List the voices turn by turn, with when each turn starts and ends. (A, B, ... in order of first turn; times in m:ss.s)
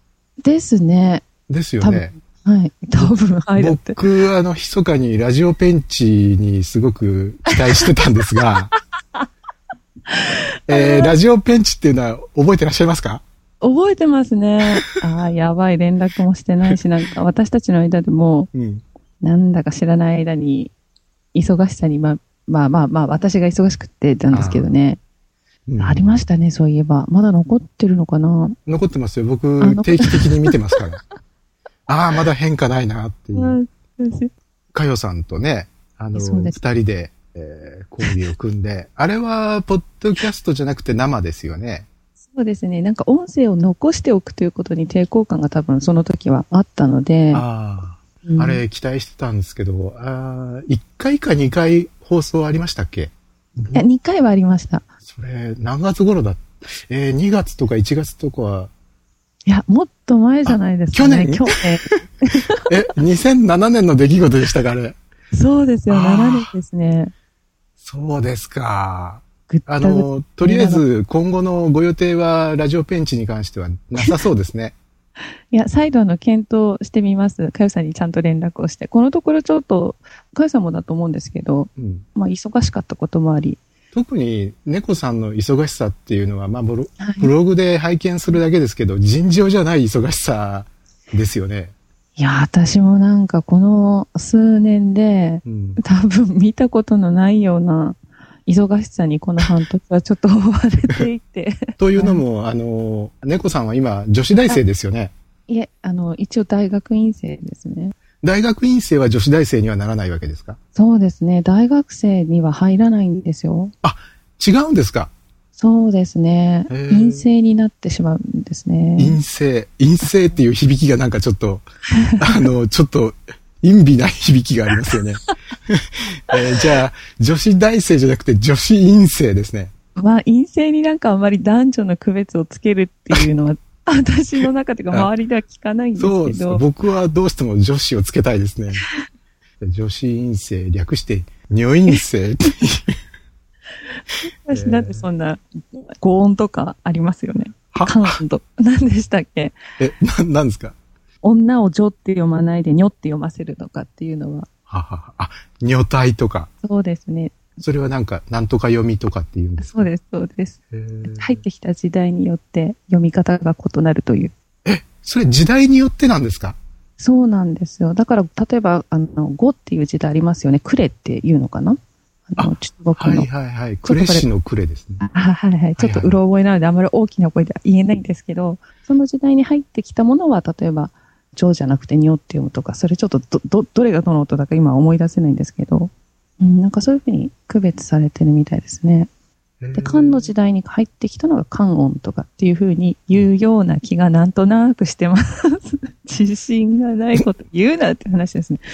0:00.4-0:01.2 A
0:01.5-0:02.1 B
0:01.8-0:04.0 A
0:03.0-0:08.7 B
0:07.5-0:07.9 A
0:10.1-0:11.1 A
0:10.7-0:13.2 B
0:13.6-0:18.5 A
0:18.5-0:18.8 B
0:19.2-0:20.7 A
0:21.3-0:25.0 A
0:24.3-0:24.7 B
0:25.7-0:26.1 B
0:25.8-0:28.6 A
0:28.7-0:31.0 B
0:29.6-0:30.3 A
0:31.9-0:33.6 B
0:33.3-0:34.3 A
0:34.7-0:41.9 B
0:36.2-0:36.6 A
0:42.3-0:47.4 A
0:47.3-0:53.9 B
0:48.2-0:48.6 A
0:53.7-0:54.8 A
0:55.1-0:58.7 B
0:59.5-1:02.7 A
1:00.5-1:01.5 B
1:02.7-1:05.0 B
1:05.3-1:07.1 A
1:05.9-1:06.5 B
1:07.8-1:14.8 B
1:09.5-1:10.8 A
1:15.5-1:23.6 A
1:21.8-1:22.0 B
1:23.9-1:31.7 B
1:27.0-1:27.3 A
1:32.2-1:42.2 A
1:35.4-1:35.8 B
1:41.8-1:45.1 B
1:45.5-1:48.0 A
1:48.2-1:50.6 B
1:50.8-1:53.7 A
1:53.8-1:55.1 B
1:55.6-1:59.2 A
1:56.7-1:57.3 B
1:59.0-2:01.7 B
2:02.0-2:02.4 A
2:02.2-2:09.7 B
2:10.0-2:16.6 A
2:16.0-2:18.8 B
2:19.6-2:22.9 B
2:24.5-2:29.6 A
2:24.5-2:25.1 B
2:27.7-2:28.2 B
2:29.8-2:30.8 B
2:31.2-2:34.5 A
2:34.7-2:36.5 B
2:36.6-2:37.4 A
2:37.6-2:39.9 B
2:39.6-2:44.3 A
2:40.7-2:41.4 B
2:44.6-2:46.6 B
2:47.0-2:51.8 A
2:52.3-2:53.3 A
2:52.4-2:55.0 B
2:53.8-2:54.3 A
2:55.0-3:09.1 A
2:55.8-2:56.2 B
3:09.6-3:10.3 B
3:09.8-3:18.6 A